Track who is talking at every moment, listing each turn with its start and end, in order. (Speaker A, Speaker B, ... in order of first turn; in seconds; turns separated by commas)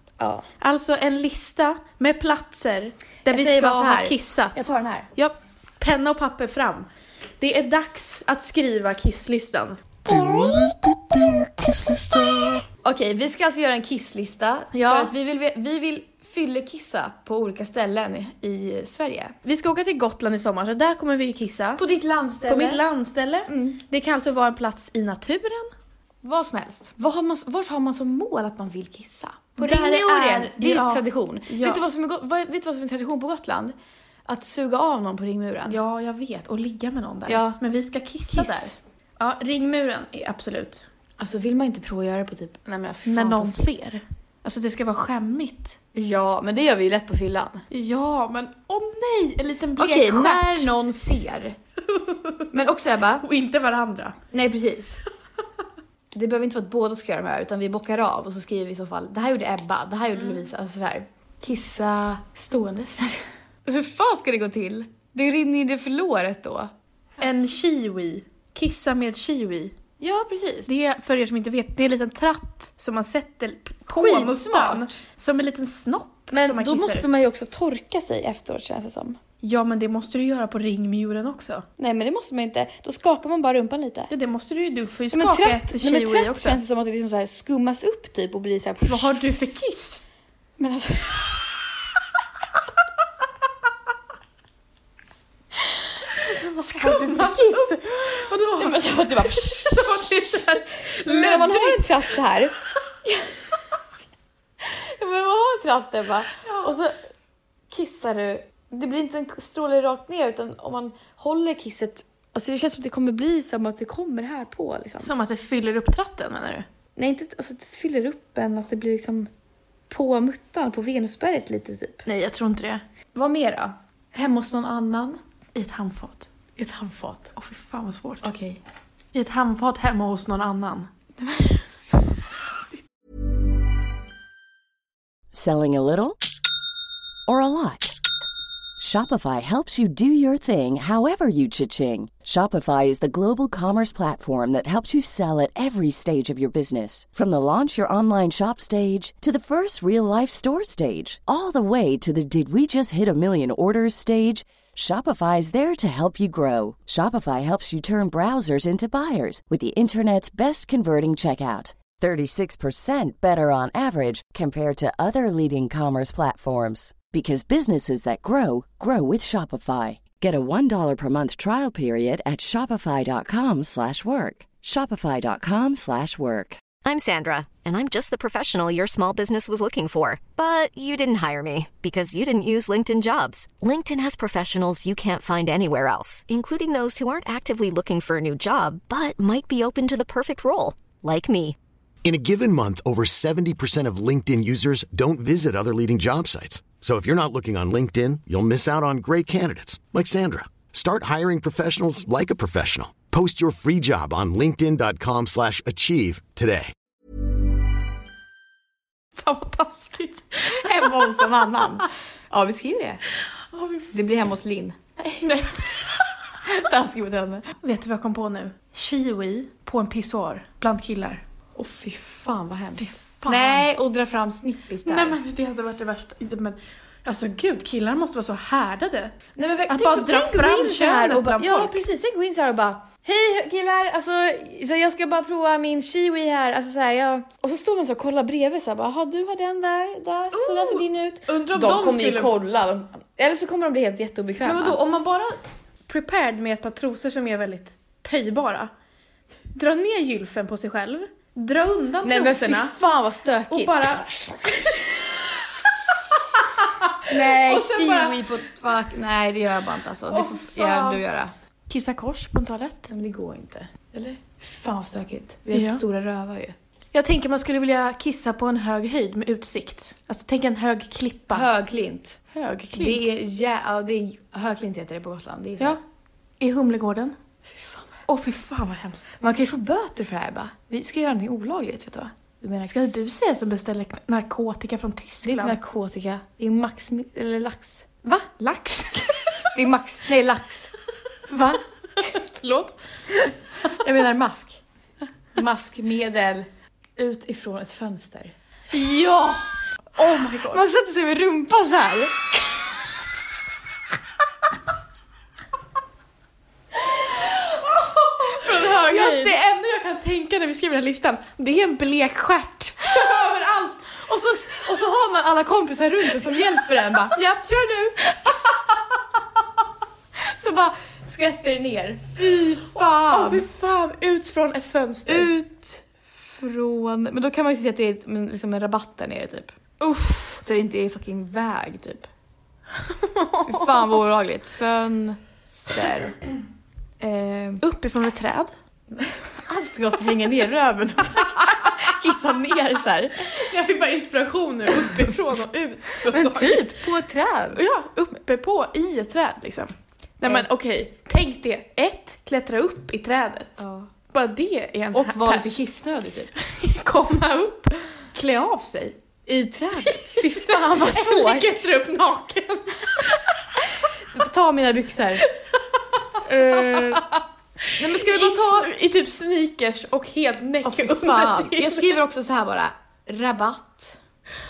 Speaker A: 0.2-0.5, Speaker B: 0.6-6.9, Speaker A: 3.2-5.1, Speaker B: 7.4-9.8, Speaker A: 10.1-10.8, Speaker A: 12.8-19.4, Speaker B: 14.7-15.1, Speaker B: 19.5-21.8, Speaker A: 21.8-22.8, Speaker B: 22.4-25.7, Speaker A: 23.5-23.8, Speaker A: 26.2-35.8, Speaker B: 29.6-31.8, Speaker B: 35.7-40.9, Speaker A: 37.3-37.6, Speaker A: 38.3-38.8, Speaker A: 41.2-43.6, Speaker B: 43.0-45.8, Speaker A: 45.9-47.6, Speaker B: 47.7-50.7, Speaker A: 49.8-51.6, Speaker B: 51.9-52.5, Speaker A: 52.5-53.3, Speaker B: 53.2-54.2, Speaker A: 54.3-55.0, Speaker A: 56.1-66.7, Speaker B: 67.2-69.8, Speaker A: 70.0-70.7, Speaker B: 70.7-77.1, Speaker A: 73.9-75.0, Speaker A: 76.3-79.2, Speaker B: 79.4-81.7, Speaker A: 81.8-84.1, Speaker B: 84.1-86.6, Speaker A: 85.1-89.2, Speaker B: 88.9-90.0, Speaker A: 90.6-91.7, Speaker A: 95.6-103.4, Speaker B: 96.2-102.1, Speaker A: 104.6-106.9, Speaker B: 106.4-106.7, Speaker A: 107.7-115.2, Speaker B: 115.0-116.7, Speaker A: 117.0-119.3, Speaker A: 119.9-122.1, Speaker B: 122.1-122.8, Speaker A: 123.1-125.2, Speaker B: 125.5-126.3, Speaker A: 126.6-127.3, Speaker B: 127.4-128.3, Speaker A: 128.2-128.6, Speaker B: 129.1-130.9, Speaker A: 131.2-131.6, Speaker C: 135.3-136.2, Speaker C: 137.3-138.0, Speaker C: 138.8-176.7, Speaker D: 176.8-191.6, Speaker E: 192.0-206.7, Speaker B: 209.2-211.6, Speaker A: 210.5-213.0, Speaker B: 213.5-213.9, Speaker A: 213.9-215.3, Speaker B: 215.2-216.1, Speaker A: 216.4-217.5, Speaker B: 217.6-221.2, Speaker A: 221.6-225.2, Speaker B: 222.8-223.7, Speaker B: 224.8-229.2, Speaker A: 229.4-244.8, Speaker B: 229.7-231.8, Speaker B: 240.3-242.3, Speaker B: 244.4-248.7, Speaker B: 249.5-252.8, Speaker A: 252.0-255.1, Speaker B: 253.5-254.9, Speaker A: 255.9-256.2, Speaker B: 255.9-258.2, Speaker A: 257.1-261.3, Speaker B: 260.1-261.0, Speaker B: 261.7-262.9, Speaker A: 262.9-266.6, Speaker B: 265.5-265.8, Speaker B: 266.9-271.5, Speaker A: 271.3-272.2, Speaker B: 272.3-273.1, Speaker A: 272.7-275.8, Speaker B: 276.4-277.1, Speaker B: 278.1-279.2, Speaker A: 279.2-283.5, Speaker B: 282.6-285.6, Speaker A: 285.2-288.3, Speaker B: 288.4-289.5, Speaker A: 289.5-290.7, Speaker A: 291.3-292.1, Speaker B: 292.0-293.7, Speaker A: 293.6-294.6, Speaker A: 295.4-298.8, Speaker B: 298.7-300.6, Speaker A: 300.5-302.8, Speaker B: 307.2-313.9, Speaker A: 308.4-309.4, Speaker A: 312.9-313.3, Speaker A: 313.9-318.4, Speaker A: 320.2-323.5, Speaker B: 322.2-325.3, Speaker A: 325.1-329.6, Speaker B: 329.8-330.4, Speaker A: 330.4-332.1, Speaker B: 332.9-334.0, Speaker A: 333.5-336.2, Speaker A: 337.0-337.6, Speaker B: 337.6-338.5, Speaker A: 338.9-343.3, Speaker B: 343.3-346.8, Speaker A: 346.1-347.6, Speaker B: 347.6-353.6, Speaker A: 350.2-350.5, Speaker A: 353.6-353.9, Speaker B: 354.1-355.6, Speaker A: 354.9-356.3, Speaker B: 356.4-359.0, Speaker A: 359.3-361.9, Speaker B: 359.9-363.3, Speaker A: 364.1-365.2, Speaker A: 366.2-367.1, Speaker B: 366.4-372.0, Speaker A: 367.8-368.7, Speaker A: 370.6-374.0